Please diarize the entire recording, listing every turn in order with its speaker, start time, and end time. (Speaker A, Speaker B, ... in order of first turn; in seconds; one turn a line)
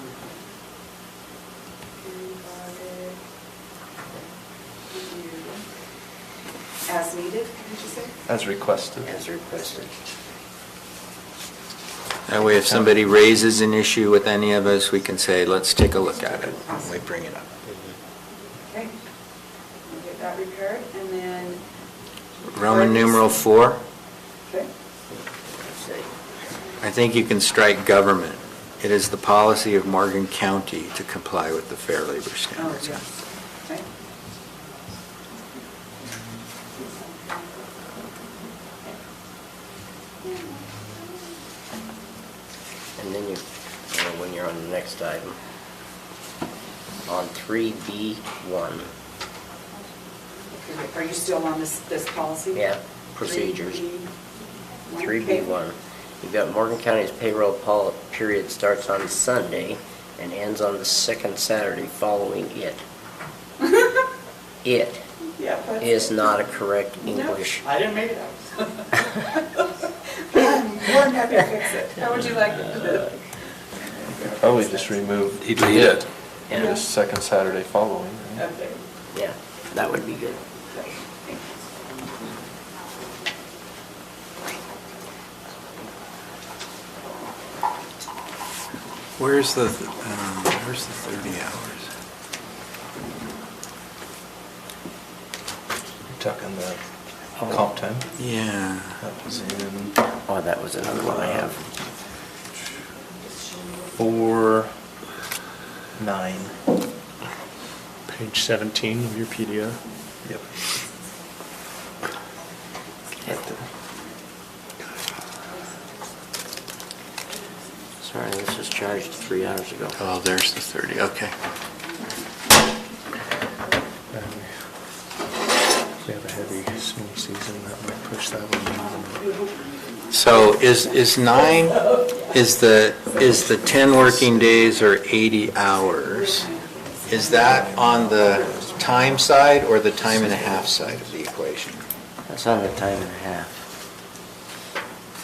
Speaker A: 2.1-3.1
Speaker A: 4.9-5.5
Speaker A: 6.9-8.1
Speaker B: 8.2-9.2
Speaker C: 9.0-9.9
Speaker D: 12.3-17.4
Speaker B: 12.6-12.9
Speaker A: 20.0-21.6
Speaker D: 22.5-23.8
Speaker C: 25.1-26.1
Speaker D: 26.8-33.0
Speaker C: 43.0-45.4
Speaker C: 47.0-48.9
Speaker A: 50.6-52.5
Speaker C: 52.5-54.0
Speaker C: 54.9-62.8
Speaker C: 64.6-65.0
Speaker A: 65.4-65.8
Speaker C: 65.8-67.7
Speaker A: 67.6-68.6
Speaker A: 70.3-73.1
Speaker C: 72.0-73.1
Speaker A: 74.0-74.3
Speaker B: 74.3-78.5
Speaker C: 76.5-76.7
Speaker C: 79.1-80.4
Speaker D: 89.2-91.8
Speaker B: 96.1-96.8
Speaker B: 97.4-98.2
Speaker D: 98.2-99.0
Speaker B: 99.0-100.0
Speaker C: 100.2-101.6
Speaker B: 100.8-101.6
Speaker B: 103.9-104.7
Speaker B: 106.0-106.6
Speaker E: 108.1-109.8
Speaker B: 113.2-113.6
Speaker C: 118.0-120.0
Speaker D: 120.0-121.3
Speaker E: 124.1-124.5
Speaker E: 126.0-129.2
Speaker D: 130.1-136.5
Speaker A: 136.3-137.5
Speaker D: 137.1-141.8
Speaker B: 137.3-138.0
Speaker B: 140.3-140.8
Speaker C: 142.3-143.6